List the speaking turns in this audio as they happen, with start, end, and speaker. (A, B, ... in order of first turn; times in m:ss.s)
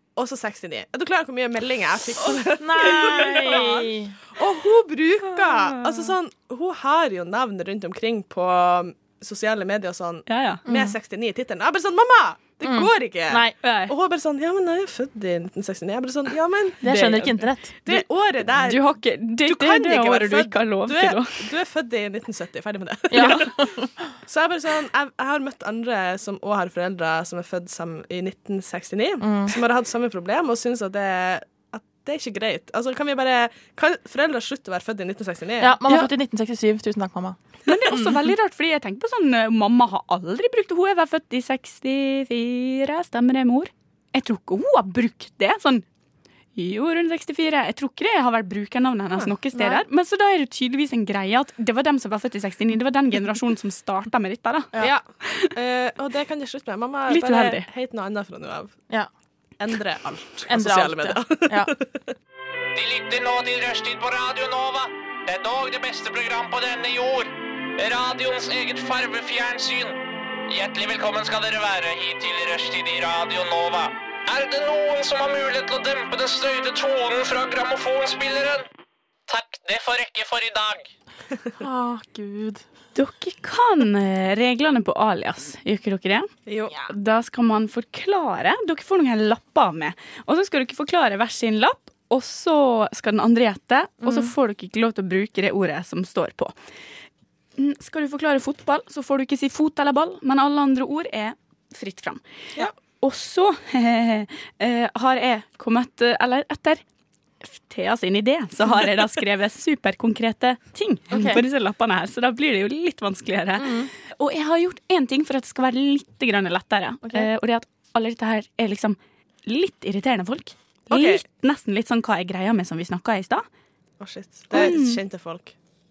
0:00.2-0:03.8 A
0:02.6-0:04.2 B
0:03.2-0:03.8 C
0:04.3-0:17.1 A
0:05.4-0:06.1 C
0:10.3-0:10.6 C
0:10.6-0:10.9 B
0:12.6-0:13.5 B
0:13.6-0:13.9 C
0:16.8-0:17.7 B
0:16.8-0:18.0 C
0:17.8-0:18.8 A
0:18.6-0:21.5 C
0:19.4-0:23.7 A
0:23.1-0:23.9 B
0:23.2-0:23.4 C
0:24.2-0:35.8 A
0:29.2-0:29.6 B
0:35.6-0:38.3 B
0:37.6-0:45.8 C
0:46.6-0:54.7 C
0:49.5-0:49.8 B
0:54.8-0:58.8 A
0:57.1-0:57.6 C
0:59.6-1:02.0 A
1:00.5-1:01.7 B
1:02.7-1:10.0 D
1:10.5-1:18.6 D
1:19.3-1:20.9 D
1:21.6-1:22.6 B
1:22.9-1:26.3 C
1:26.4-1:26.8 A
1:26.9-1:36.5 C
1:34.0-1:34.3 B
1:37.6-1:42.2 C
1:42.8-1:46.8 C
1:47.4-2:03.4 C
1:51.1-1:51.4 B
1:53.6-1:53.9 B
1:57.0-1:57.3 B
2:00.9-2:01.2 A
2:04.0-2:05.5 A
2:04.5-2:05.0 C